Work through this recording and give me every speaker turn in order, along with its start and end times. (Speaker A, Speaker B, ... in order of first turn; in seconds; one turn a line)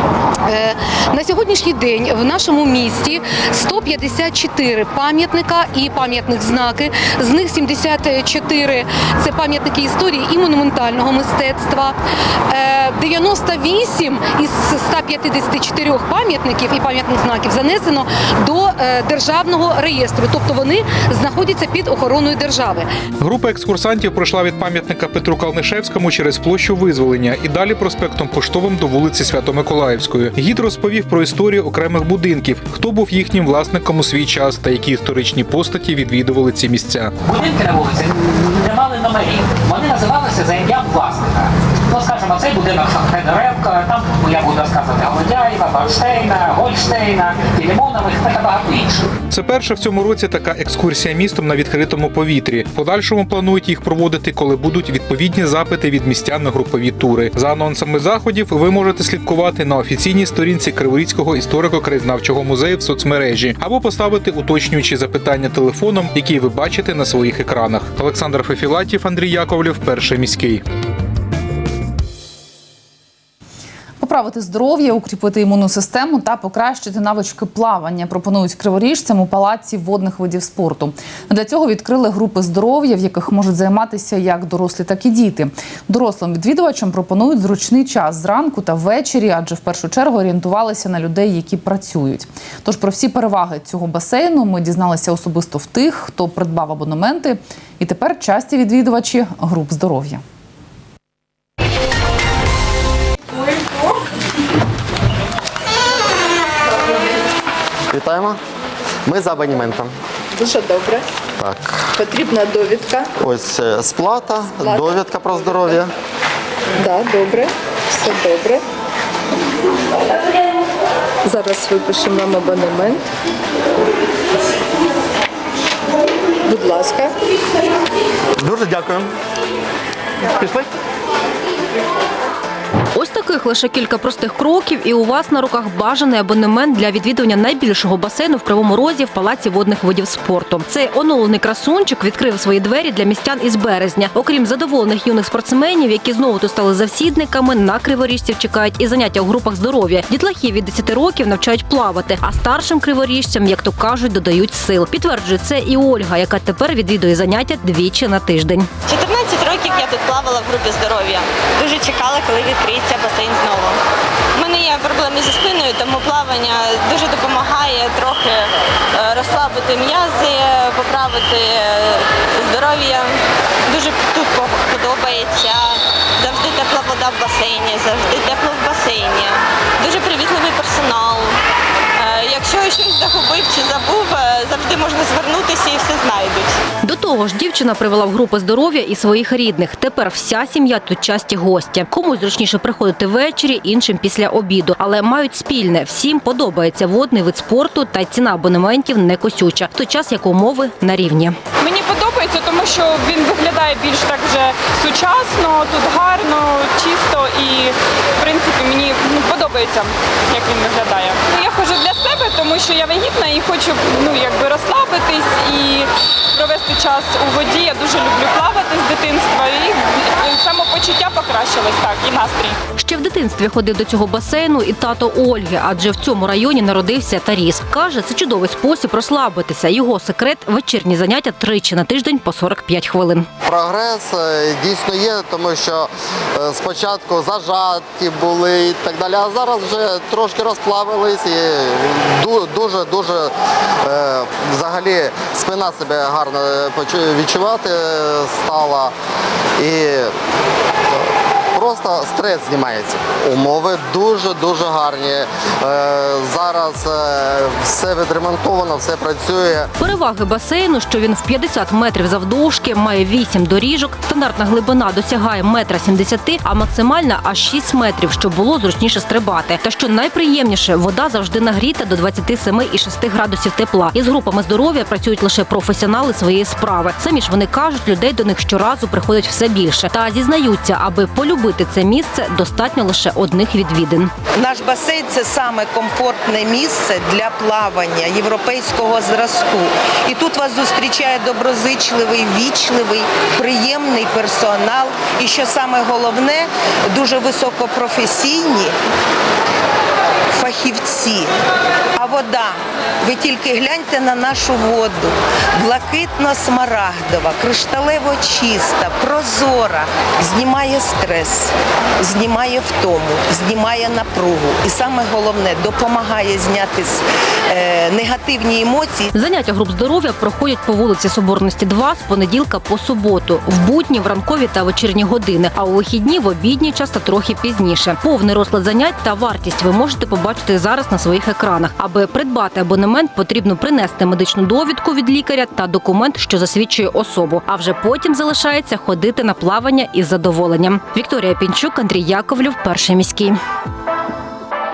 Speaker A: 0.4-12.0
Speaker A: 12.5-22.9
Speaker B: 23.2-37.1
Speaker C: 37.2-49.1
Speaker B: 49.3-70.6
Speaker D: 74.0-100.2
Speaker E: 107.9-108.4
Speaker E: 109.0-109.9
Speaker F: 110.4-111.0
Speaker E: 111.4-111.9
Speaker F: 112.0-113.0
Speaker E: 113.2-115.9
Speaker F: 116.8-118.6
Speaker F: 121.2-123.0
Speaker F: 126.5-127.1
Speaker G: 132.9-158.7
Speaker H: 158.9-163.8
Speaker H: 164.3-181.4
Speaker H: 182.0-186.6
Speaker G: 186.8-201.4
Speaker I: 201.6-222.5
Speaker G: 222.8-233.3
Speaker E: 233.4-243.3
Speaker E: 243.8-248.9
Speaker E: 249.6-250.1
Speaker E: 251.5-259.7
Speaker G: 259.8-284.1
Speaker J: 284.4-298.7
Speaker J: 300.3-301.3
Speaker J: 301.9-319.1
Speaker G: 319.1-343.4